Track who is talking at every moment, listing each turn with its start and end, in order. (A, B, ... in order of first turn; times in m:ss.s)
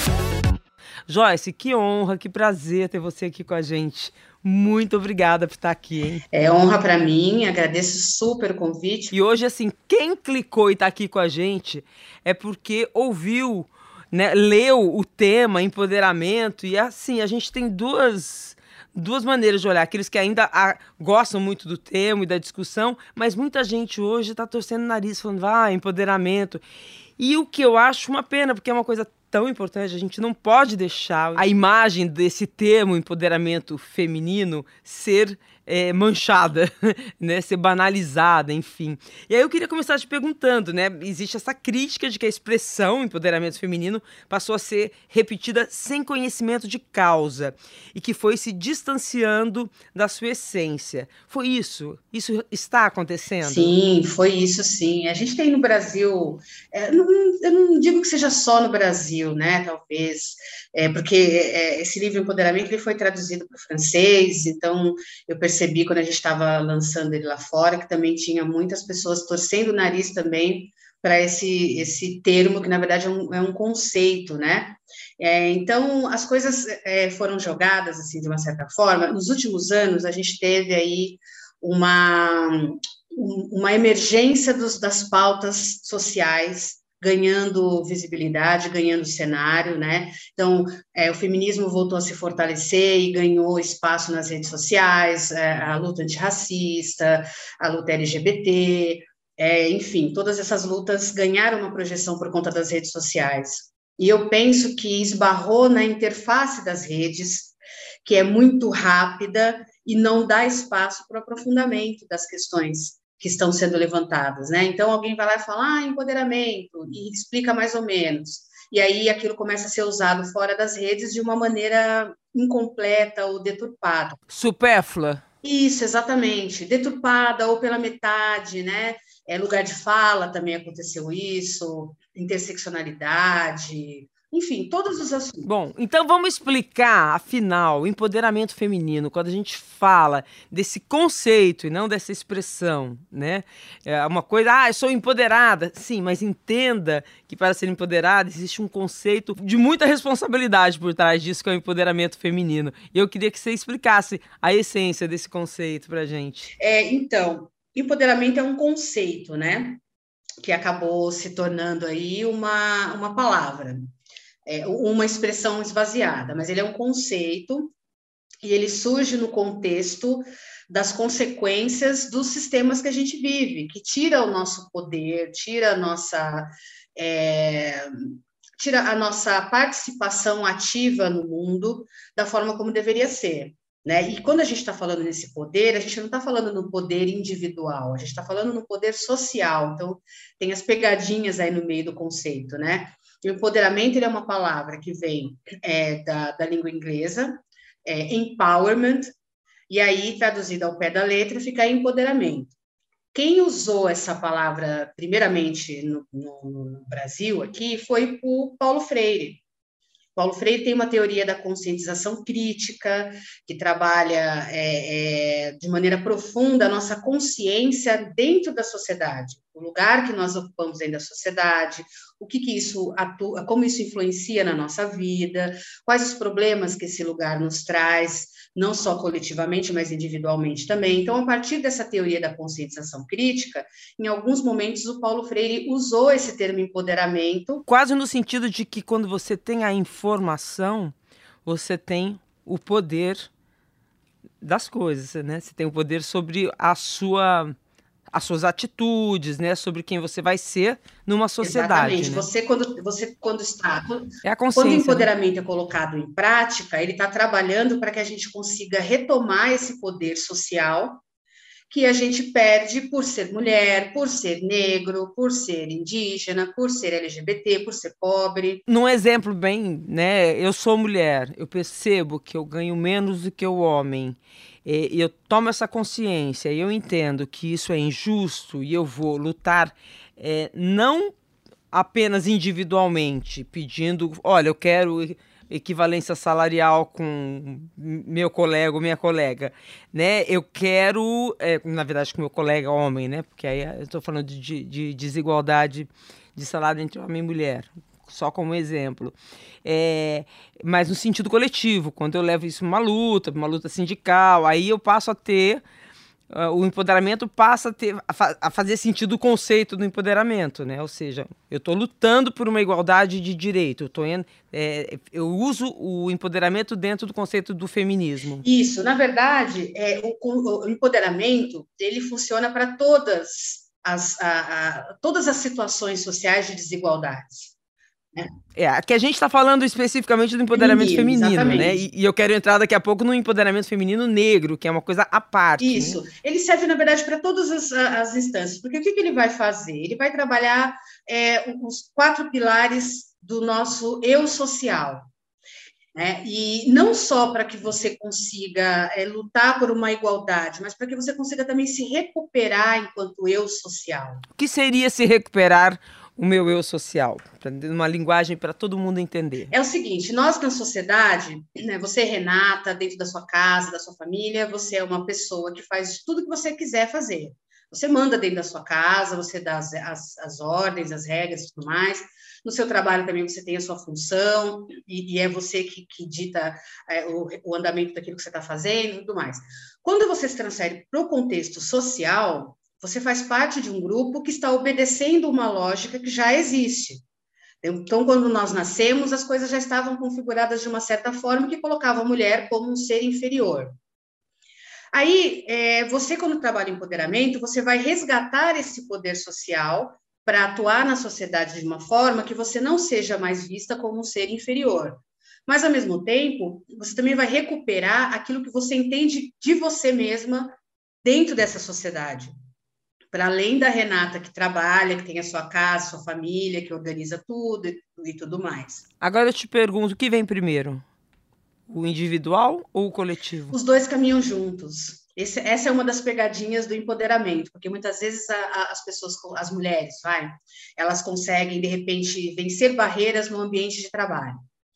0:01.1-0:06.2 A
0:06.3-0:09.1 B
0:09.1-0:26.6 A
0:27.2-0:53.7 A
0:53.4-2:04.2 B
2:04.3-2:05.2 A
2:05.4-2:15.5 B
2:15.4-2:36.5 A
2:36.6-2:39.8 B
2:40.4-2:43.9 B
2:44.4-2:47.7 B
2:48.4-3:19.1 B
3:19.7-3:22.5 B
3:23.1-3:29.4 B
3:30.2-3:57.6 B
3:57.7-4:00.9 A
4:01.4-4:03.3 A
4:04.4-4:07.5 A
4:08.1-4:12.2 A
4:11.4-4:21.0 B
4:14.2-4:15.1 A
4:21.7-4:28.6 B
4:28.7-4:41.1 A
4:41.7-5:05.6 A
5:06.3-5:18.4 A
5:18.4-5:27.5 B
5:28.6-5:36.0 A
5:30.5-5:31.8 B
5:35.6-5:45.1 B
5:45.9-5:54.2 B
5:54.4-5:59.5 A
5:59.5-6:27.0 B
6:27.6-6:33.7 B
6:34.9-6:52.3 B
6:53.1-6:58.8 B
6:59.0-7:00.8 A
7:01.7-7:03.5 A
7:03.5-7:14.4 B